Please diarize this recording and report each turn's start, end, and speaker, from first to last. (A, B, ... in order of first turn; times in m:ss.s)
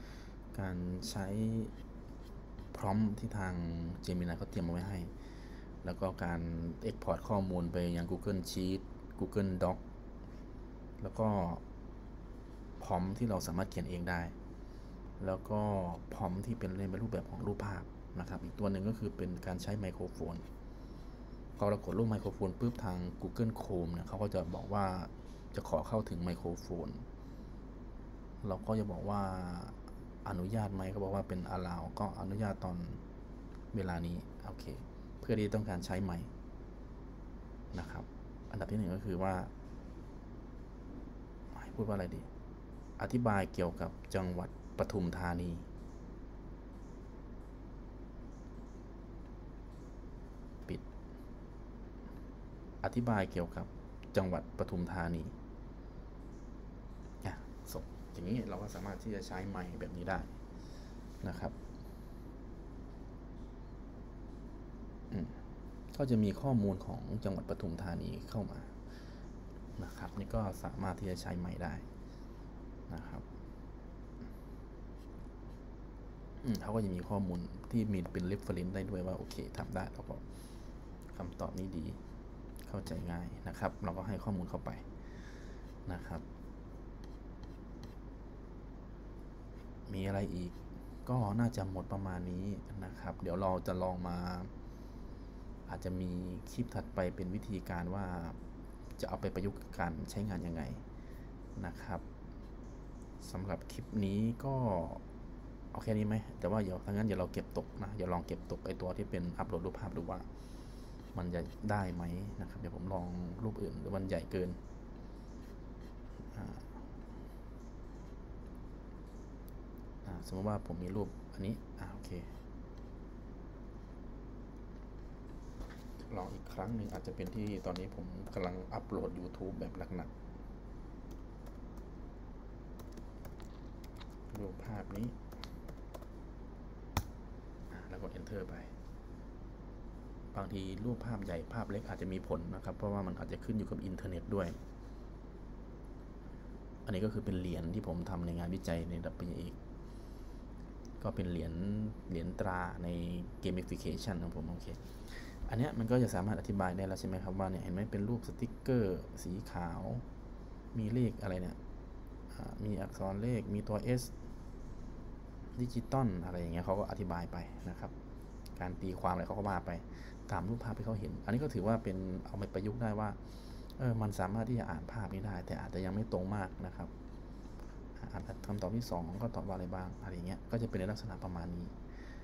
0:00.5-0:01.7 A
0:02.7-0:05.1 A
0:05.8-0:09.8 A
0:11.0-0:11.6 A
0:12.8-0:14.4 A
0:15.2-0:20.5 A
0:21.6-0:27.0 A
0:28.4-0:33.0 A
0:33.7-0:36.3 A
0:37.7-0:39.5 A
0:41.5-0:42.3 A
0:43.0-0:45.7 A
0:52.8-0:55.3 A
0:57.2-1:00.4 A
1:01.2-1:01.6 A
1:05.1-1:05.4 A
1:05.9-1:08.8 A
1:09.8-1:11.8 A
1:12.9-1:13.3 A
1:16.4-1:20.2 A
1:21.1-1:22.0 A
1:22.7-1:24.9 A
1:25.9-1:26.2 A
1:29.9-1:34.5 A
1:35.7-1:38.4 A
1:39.0-1:40.8 A
1:41.6-1:42.0 A
1:43.2-1:45.0 A
1:45.7-1:50.3 A
1:51.1-1:54.6 A
1:56.3-1:56.8 A
2:00.0-2:02.3 A
2:06.1-2:10.1 A
2:14.3-2:15.2 A
2:17.7-2:18.7 A
2:20.3-2:24.6 A
2:26.9-2:29.6 A
2:31.0-2:40.0 A
2:40.7-2:41.6 A
2:42.3-2:44.1 A
2:45.6-2:47.9 A
2:48.6-2:53.2 A
2:53.8-2:56.9 A
2:58.0-3:01.7 A